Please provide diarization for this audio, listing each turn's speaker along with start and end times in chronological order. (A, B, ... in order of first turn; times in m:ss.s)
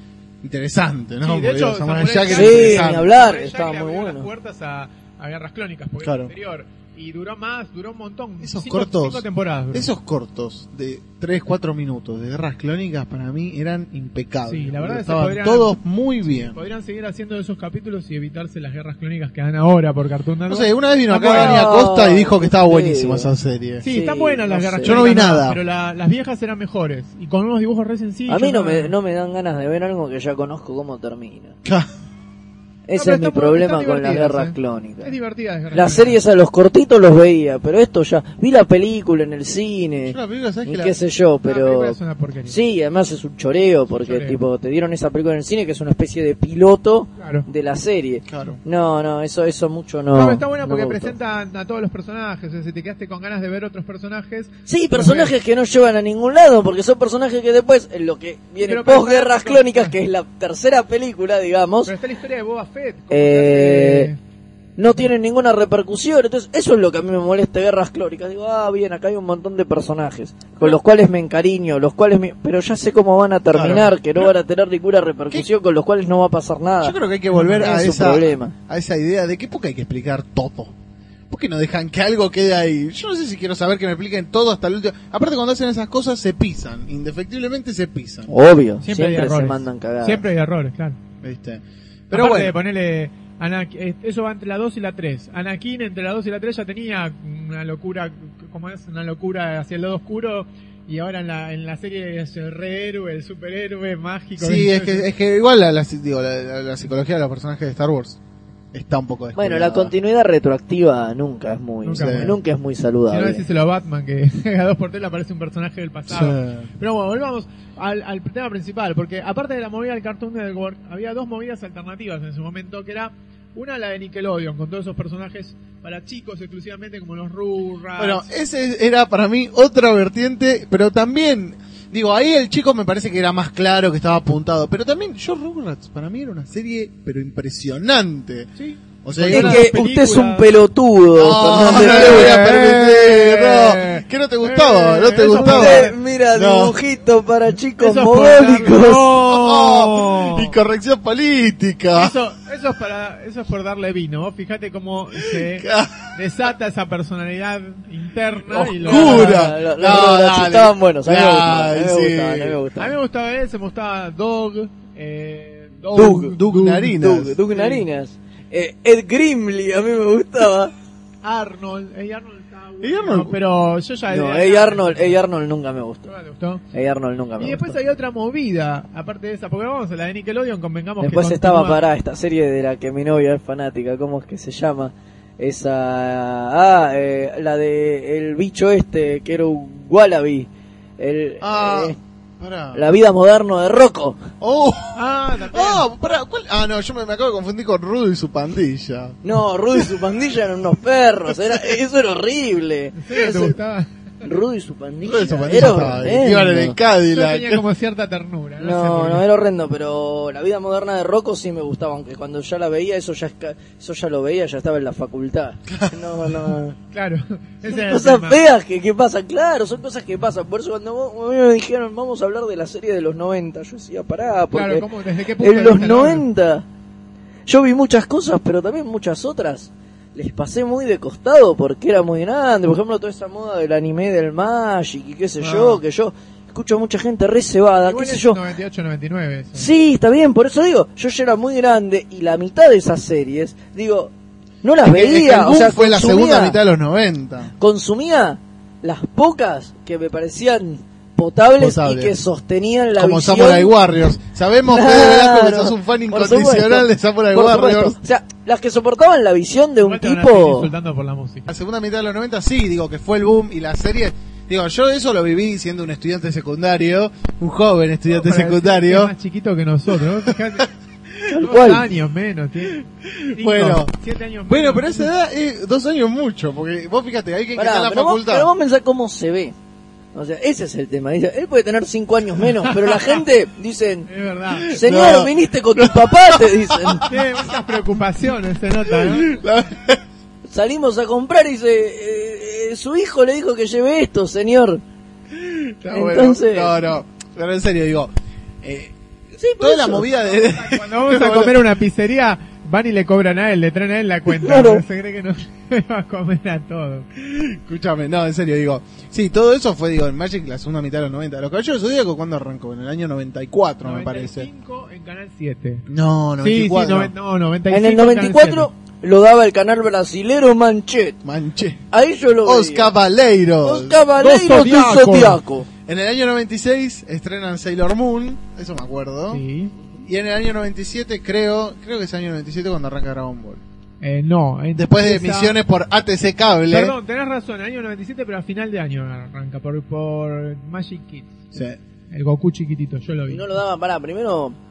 0:00.4-0:03.1 A
0:01.2-0:09.9 B
0:02.3-0:04.3 C
0:06.0-0:06.3 A
0:08.4-0:16.6 A
0:14.5-0:15.8 B
0:16.3-0:21.7 B
0:20.5-0:23.8 A
0:21.1-0:23.3 C
0:23.8-0:28.9 B
0:23.8-0:25.1 C
0:24.8-0:25.6 A
0:28.3-0:31.5 C
0:32.9-0:35.1 C
0:32.9-0:36.2 B
0:35.7-0:42.0 C
0:40.1-0:41.0 A
0:41.4-0:42.6 B
0:42.5-0:51.1 C
0:44.0-0:44.4 B
0:47.2-0:47.5 B
0:48.3-0:48.6 A
0:50.1-0:55.3 B
0:54.7-1:01.9 C
0:58.6-0:59.9 B
1:01.8-1:04.2 B
1:03.1-1:04.1 C
1:04.8-1:18.5 C
1:13.5-1:14.3 A
1:16.8-1:20.7 A
1:17.3-1:17.7 B
1:21.3-1:28.3 A
1:28.3-1:30.2 C
1:28.8-1:31.0 B
1:31.2-1:32.5 A
1:32.1-1:45.1 B
1:44.4-1:48.2 A
1:48.7-1:49.9 A
1:49.4-1:53.4 C
1:51.8-1:52.4 B
1:52.0-1:52.3 A
1:53.1-2:08.3 B
1:56.1-1:56.7 A
2:08.0-2:18.5 A
2:18.6-2:20.5 B
2:19.0-2:19.7 A
2:19.3-2:22.5 C
2:21.2-2:26.8 A
2:21.5-2:26.0 B
2:25.3-2:29.1 C
2:27.8-2:30.5 B
2:29.2-2:32.1 A
2:31.9-2:39.5 B
2:35.2-2:36.1 A
2:38.5-2:42.6 A
2:38.8-2:42.9 C
2:42.8-2:46.8 B
2:45.9-2:50.7 C
2:46.1-2:47.3 A
2:47.5-2:47.8 B
2:51.2-2:55.2 B
2:52.8-2:53.4 A
2:54.1-2:56.1 C
2:56.0-2:56.6 B
2:56.7-2:57.7 C
2:57.4-3:01.8 B
3:01.0-3:12.0 C
3:11.4-3:12.8 A
3:12.7-3:14.2 C
3:14.4-3:19.2 A
3:14.9-3:15.8 B
3:19.2-3:23.5 C
3:21.3-3:21.7 A
3:23.0-3:23.9 B
3:24.2-3:26.7 C
3:25.0-3:27.6 A
3:25.5-3:26.4 B
3:27.0-3:29.2 B
3:28.6-3:36.8 C
3:36.9-3:38.4 B
3:37.6-3:44.9 C
3:44.5-3:46.3 B
3:45.4-3:46.6 C
3:47.5-3:58.4 C
3:55.4-3:55.8 B
3:57.9-3:59.7 B
3:59.5-4:04.1 C
4:04.6-4:06.6 C
4:04.9-4:07.5 A
4:07.6-4:13.8 C
4:11.6-4:12.2 A
4:13.0-4:18.0 A
4:14.6-4:20.7 C
4:19.8-4:21.5 B
4:21.5-4:29.1 A
4:28.1-4:30.7 B
4:31.3-4:31.9 C
4:31.4-4:35.1 B
4:33.0-4:33.9 A
4:34.5-4:38.5 A
4:37.6-4:39.5 C
4:40.1-4:44.1 C
4:42.6-4:43.1 B
4:44.1-4:44.8 B
4:44.7-4:47.1 C
4:44.7-4:47.2 A
4:47.1-4:49.3 B
4:48.9-4:50.0 A
4:50.5-4:54.8 C
4:55.3-4:58.1 A
4:55.9-4:56.7 C
4:58.6-4:58.9 A
4:59.4-5:00.0 C
4:59.6-5:01.6 A
5:00.3-5:07.0 B
5:04.3-5:04.8 C
5:07.2-5:14.5 A
5:13.8-5:15.8 B
5:15.9-5:17.1 A
5:16.4-5:18.7 B
5:17.7-5:21.2 C
5:21.2-5:21.8 A
5:21.9-5:22.9 C
5:22.4-5:24.0 A
5:23.6-5:25.7 C
5:24.2-5:25.4 B
5:25.9-5:29.4 A
5:29.3-5:29.7 B
5:30.0-5:33.6 A
5:34.0-5:35.6 B
5:34.7-5:36.9 A
5:36.7-5:41.4 B
5:41.5-5:41.8 A
5:42.1-5:43.5 B
5:43.3-5:44.6 C